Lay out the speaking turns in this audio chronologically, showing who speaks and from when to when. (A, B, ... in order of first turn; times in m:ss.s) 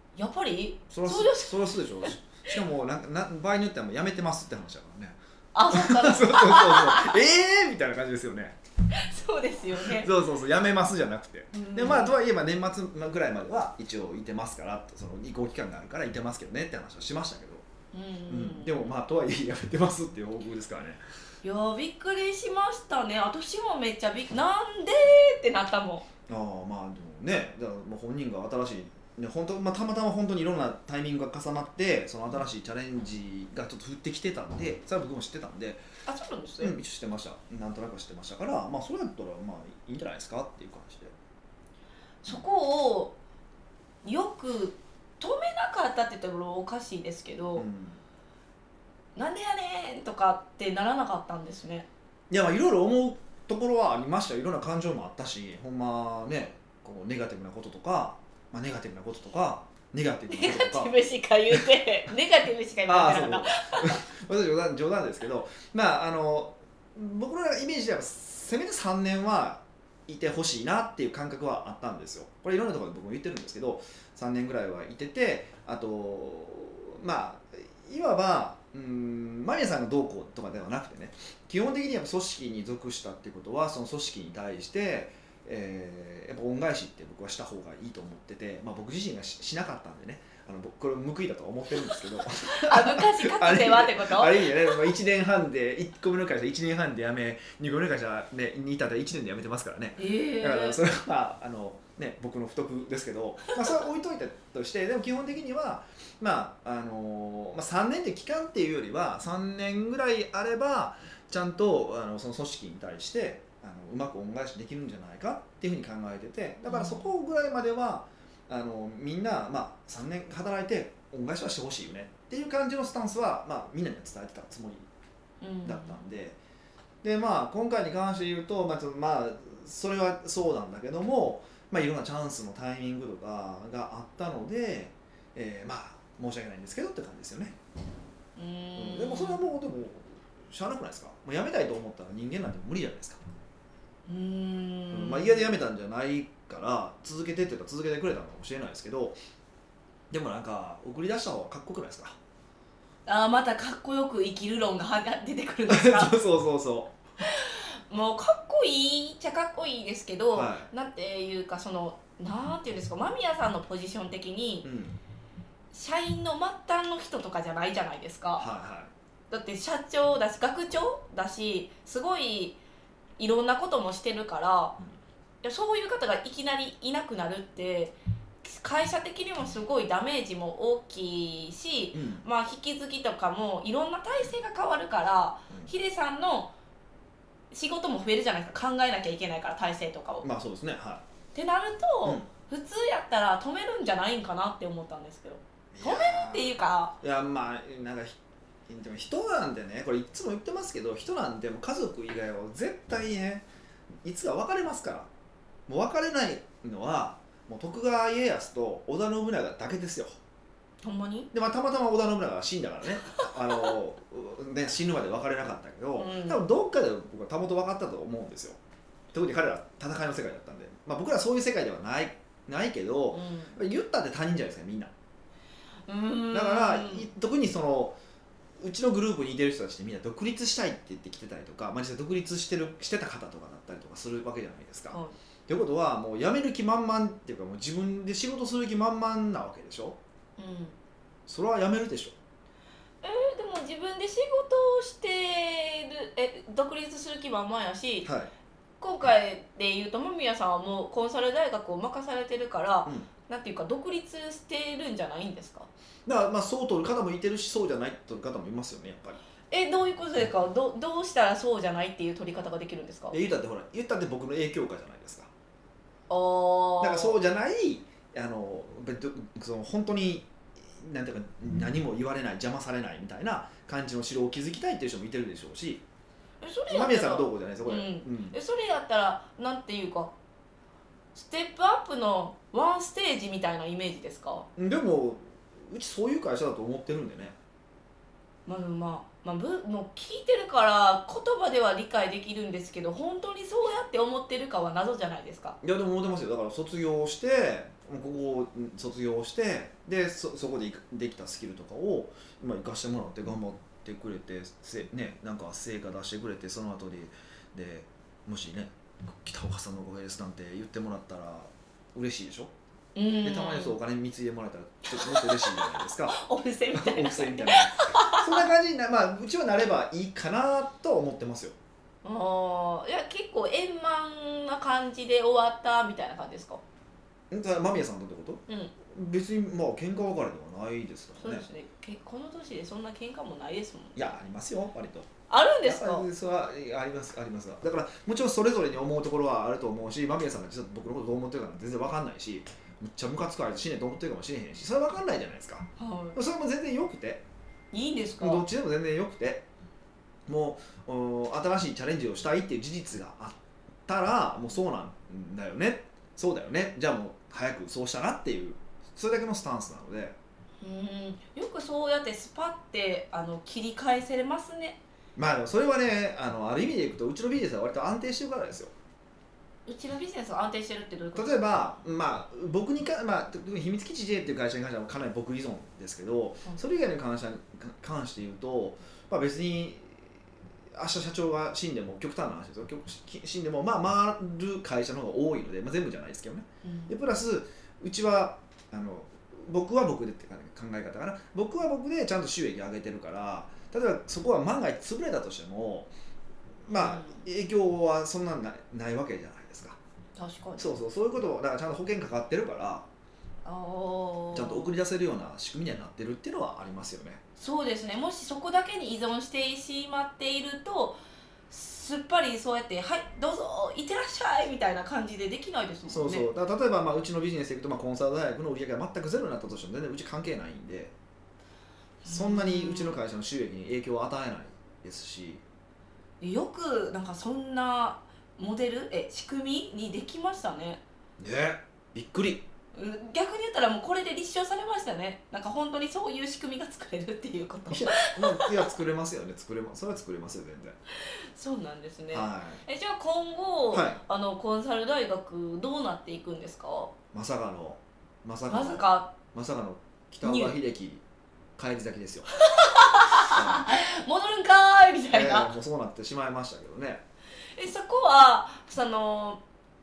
0:00.1-0:01.5 A
0:00.9-0:05.2 B
0:05.5-0:07.2 A
0:05.7-0:08.6 B
0:08.9-0:10.1 A
0:09.8-0:17.6 B
0:11.5-0:12.1 A
0:17.9-0:18.9 A
0:18.3-0:21.0 B
0:21.4-0:26.1 A
0:26.3-0:35.8 B
0:36.0-0:36.8 A
0:36.6-0:41.1 B
0:42.2-0:43.2 A
0:44.0-0:47.7 A
0:47.6-0:48.0 B
0:49.2-0:51.9 A
0:52.3-1:00.9 B
1:00.3-1:04.0 A
1:02.9-2:04.8 B
1:32.5-1:34.8 A
1:40.0-1:40.8 A
1:56.6-1:57.1 A
2:05.4-2:06.0 A
2:05.6-2:06.4 B
2:07.0-2:17.6 B
2:18.4-2:19.4 A
2:18.8-2:23.2 B
2:24.1-2:25.5 A
2:24.9-2:29.2 B
2:30.1-2:32.2 B
2:33.0-2:36.1 A
2:35.7-2:36.9 B
2:37.2-2:44.7 A
2:40.3-2:40.7 B
2:44.6-2:45.0 B
2:45.7-2:48.4 A
2:48.4-2:48.9 B
2:49.3-2:52.6 A
2:53.2-2:54.7 A
2:55.4-3:06.5 A
3:01.9-3:02.2 B
3:07.5-3:10.2 A
3:10.2-3:11.0 B
3:11.3-3:17.0 A
3:15.7-3:23.4 B
3:24.0-3:25.1 B
3:25.7-3:30.2 B
3:30.8-3:31.3 A
3:31.3-3:38.6 B
3:36.0-3:36.4 A
3:39.1-3:44.9 B
3:43.1-3:43.6 A
3:45.9-3:47.1 A
3:46.3-3:48.0 B
3:48.6-4:00.0 B
3:54.9-3:55.2 A
4:00.4-4:00.8 A
4:01.3-4:02.1 B
4:03.0-4:08.1 A
4:08.0-4:08.3 B
4:08.8-4:15.7 A
4:16.0-4:19.2 B
4:19.5-4:23.1 A
4:23.1-4:25.3 B
4:26.1-4:27.2 A
4:26.8-4:35.8 B
4:36.4-4:40.1 A
4:36.7-4:38.4 B
4:41.1-4:44.5 A
4:44.6-4:47.3 B
4:48.4-4:55.6 A
4:55.6-5:12.5 B
5:12.9-5:13.8 A
5:13.2-5:16.2 B
5:15.0-5:18.5 A
5:16.7-5:21.6 B
5:22.0-5:26.6 A
5:27.3-5:31.4 B
5:28.5-5:28.7 A
5:31.2-5:34.1 A
5:34.0-5:35.1 B
5:35.3-5:36.1 A
5:35.6-5:47.2 B
5:45.8-5:46.2 A
5:47.7-5:48.4 A
5:48.2-5:49.5 B
5:50.3-6:00.2 B
6:00.6-6:04.8 A
6:05.2-6:08.7 B
6:09.6-6:11.5 A
6:11.1-6:20.1 B
6:20.7-6:35.9 B
6:26.6-6:26.9 A
6:36.6-6:39.8 B
6:36.7-6:37.2 A
6:40.2-6:40.7 A
6:40.6-6:42.9 B
6:43.4-6:44.7 A
6:44.3-6:47.2 B
6:47.4-6:51.0 A
6:51.5-6:56.3 A
6:55.9-7:00.9 B
7:02.0-7:03.0 A
7:02.0-7:05.4 B
7:06.2-7:10.8 A
7:11.2-7:12.4 B
7:12.7-7:18.6 A
7:17.7-7:20.8 B
7:21.0-7:26.9 A
7:22.1-7:22.6 B
7:23.7-7:24.0 B
7:27.1-7:31.0 B
7:28.5-7:29.2 A
7:30.2-7:30.5 A
7:31.6-7:32.3 B
7:32.3-7:35.5 A
7:33.1-7:33.7 B
7:35.1-7:37.0 B
7:37.6-7:39.4 A